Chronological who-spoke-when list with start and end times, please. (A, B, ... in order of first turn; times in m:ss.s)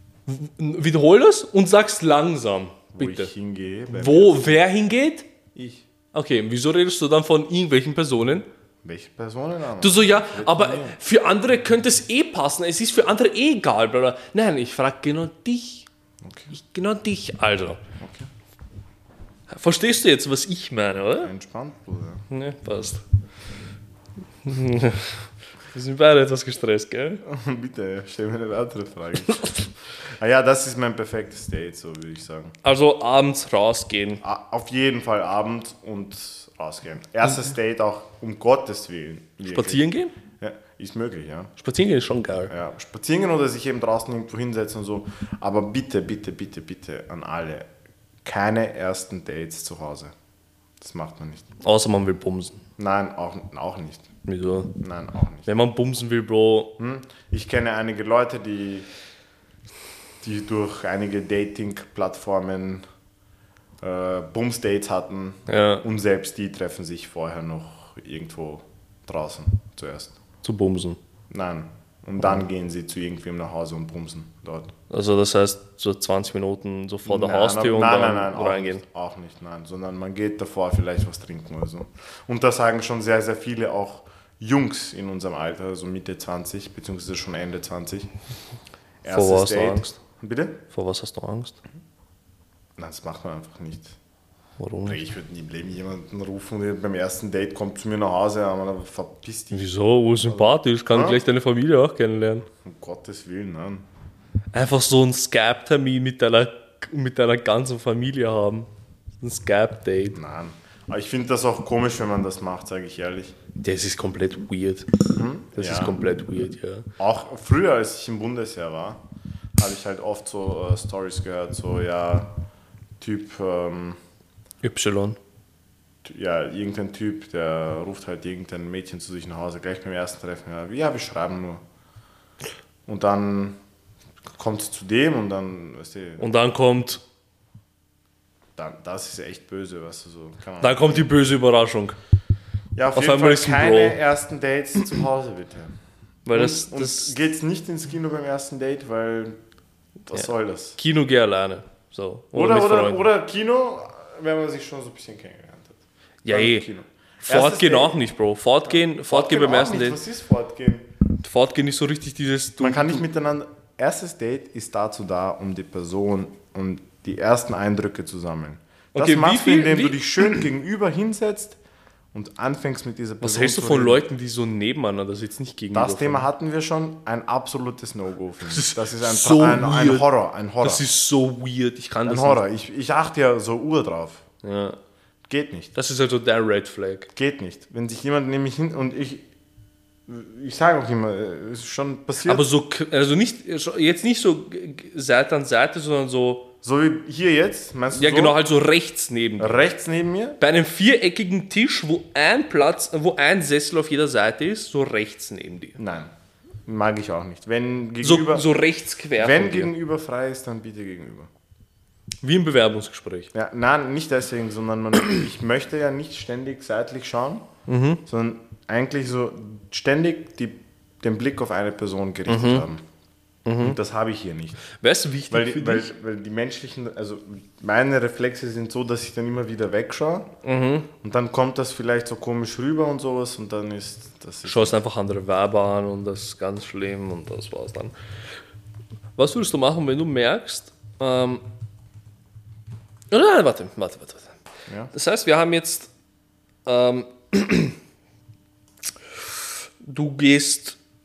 0:00.3-0:03.3 A
0:03.0-0:04.6 B
0:03.9-0:05.3 A
0:05.6-0:05.8 B
0:06.1-0:08.5 A
0:08.8-0:11.0 B
0:09.8-0:15.9 A
0:16.2-0:16.5 B
0:16.5-0:17.8 A
0:18.0-0:18.3 B
0:19.5-0:21.3 A
0:21.2-0:22.3 B
0:22.3-0:23.0 A
0:24.4-0:27.2 A
0:27.2-0:32.6 B
0:32.6-0:34.2 A
0:34.2-0:39.8 B
0:39.5-0:40.1 A
0:40.4-0:41.5 B
0:41.6-0:42.5 A
0:42.5-0:47.7 B
0:48.2-0:50.1 B
0:50.8-0:51.5 B
0:51.6-0:52.6 A
0:52.8-0:54.1 B
0:54.3-0:54.8 A
0:54.8-0:55.5 B
0:55.5-0:56.8 A
0:56.8-0:58.9 B
1:00.2-1:02.8 B
1:03.8-1:10.2 B
1:05.5-1:05.8 A
1:10.4-1:11.0 A
1:11.3-1:14.7 B
1:14.9-1:18.8 A
1:17.0-1:28.1 B
1:29.0-1:30.6 B
1:29.1-1:30.0 A
1:30.7-1:31.6 A
1:32.8-1:34.0 B
1:34.6-1:35.0 A
1:34.9-1:39.7 B
1:39.5-1:42.5 A
1:40.3-1:41.2 B
1:42.6-1:43.9 B
1:44.5-1:48.7 A
1:49.2-1:50.2 A
1:50.1-1:53.4 B
1:53.6-1:54.9 A
1:55.2-1:56.0 B
1:55.6-1:56.9 A
1:57.0-1:59.0 B
1:59.6-2:02.3 B
2:03.0-2:04.0 B
2:04.6-2:05.2 A
2:06.0-2:11.6 B
2:12.9-2:13.6 B
2:14.3-2:16.3 B
2:16.2-2:17.0 A
2:18.6-2:21.1 B
2:20.6-2:22.0 A
2:22.8-2:25.8 B
2:23.0-2:24.0 A
2:26.3-2:27.1 A
2:26.3-2:29.4 B
2:30.1-2:30.8 B
2:30.1-2:33.0 A
2:32.3-2:38.0 B
2:36.2-2:36.7 A
2:37.3-2:40.0 A
2:38.6-2:40.9 B
2:41.2-2:43.0 A
2:42.6-2:51.6 B
2:49.0-2:50.4 A
2:52.1-2:54.0 B
2:53.2-2:56.3 A
2:55.7-3:00.8 B
2:58.5-3:00.1 A
3:00.6-3:02.4 A
3:02.1-3:04.2 B
3:04.4-3:04.8 A
3:05.3-3:05.7 B
3:05.8-3:07.1 A
3:07.1-3:09.2 B
3:10.1-3:12.5 B
3:12.2-3:16.5 A
3:16.6-3:18.4 B
3:17.9-3:19.6 A
3:19.4-3:20.4 B
3:20.4-3:25.8 A
3:25.8-3:26.1 B
3:26.6-3:28.5 B
3:28.0-3:29.7 A
3:29.2-3:31.3 B
3:32.2-3:33.3 A
3:33.3-3:37.5 B
3:37.7-3:38.0 A
3:38.1-3:42.8 B
3:42.3-3:42.7 A
3:43.4-3:43.8 A
3:43.6-3:44.6 B
3:44.7-3:45.9 A
3:45.3-3:50.3 B
3:50.4-3:50.9 A
3:51.0-3:54.8 B
3:54.4-3:57.9 A
3:59.2-4:01.4 A
4:03.1-4:04.3 A
4:04.9-4:05.9 A
4:06.7-4:07.8 A
4:09.8-4:10.8 A